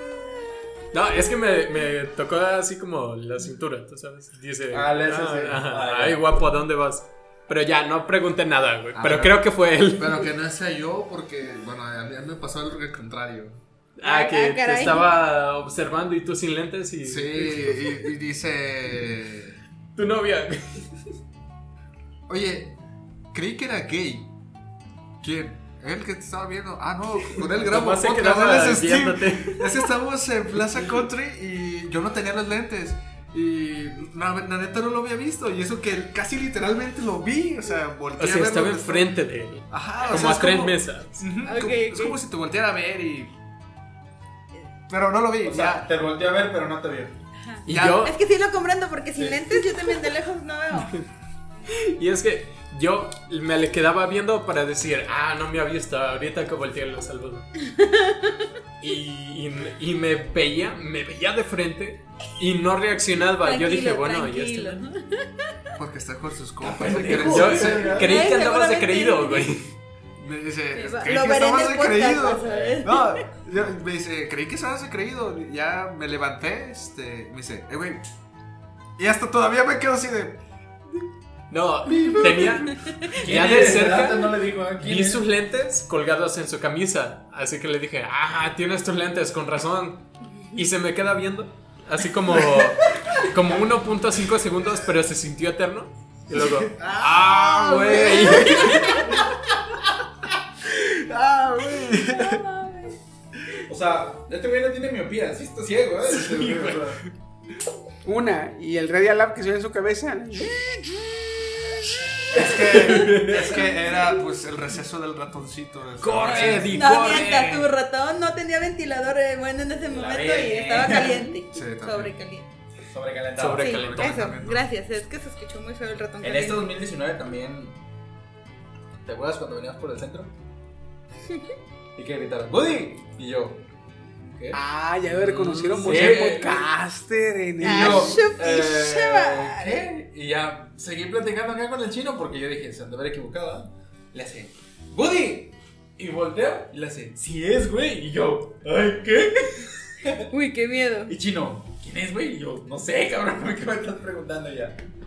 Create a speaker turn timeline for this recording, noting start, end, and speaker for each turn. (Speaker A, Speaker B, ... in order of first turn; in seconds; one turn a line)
Speaker A: 0.9-10.3
Speaker B: 4.7-6.2
Speaker C: 8.9-13.6
Speaker A: 14.0-17.9
Speaker D: 14.0-15.0
Speaker C: 17.0-19.6
Speaker A: 19.9-20.9
Speaker C: 22.3-22.8
Speaker C: 23.3-24.3
Speaker C: 25.2-39.1
Speaker A: 27.3-29.8
Speaker A: 38.2-41.2
Speaker C: 39.7-43.3
Speaker D: 41.4-42.2
Speaker C: 44.9-45.9
Speaker B: 45.4-47.2
Speaker D: 47.4-50.9
Speaker A: 47.7-48.1
Speaker C: 47.7-48.1
Speaker A: 50.8-51.0
Speaker A: 51.7-57.5
Speaker D: 57.6-58.4
Speaker A: 58.8-64.8
Speaker D: 63.4-65.3
Speaker C: 65.8-68.0
Speaker B: 66.6-68.1
Speaker A: 67.1-69.7
Speaker D: 67.8-69.5
Speaker C: 70.2-78.0
Speaker D: 70.7-73.3
Speaker C: 79.0-80.4
Speaker A: 81.5-99.1
Speaker B: 83.1-85.2
Speaker B: 92.9-93.2
Speaker B: 96.7-99.4
Speaker C: 96.8-98.6
Speaker C: 100.7-102.4
Speaker D: 102.0-103.0
Speaker B: 103.7-107.0
Speaker A: 106.3-106.8
Speaker E: 108.0-110.9
Speaker B: 112.3-113.3
Speaker C: 112.3-117.7
Speaker A: 112.9-113.3
Speaker A: 116.0-117.4
Speaker D: 116.6-122.5
Speaker B: 119.9-121.2
Speaker C: 121.5-122.2
Speaker B: 122.8-123.9
Speaker A: 123.4-124.3
Speaker D: 123.6-126.7
Speaker C: 123.7-124.7
Speaker B: 126.2-127.8
Speaker B: 129.0-130.3
Speaker B: 132.0-133.6
Speaker B: 134.2-134.6
Speaker E: 134.5-138.2
Speaker A: 135.3-136.2
Speaker B: 135.8-136.6
Speaker D: 137.6-139.9
Speaker B: 137.6-150.2
Speaker D: 150.3-151.1
Speaker B: 151.1-154.8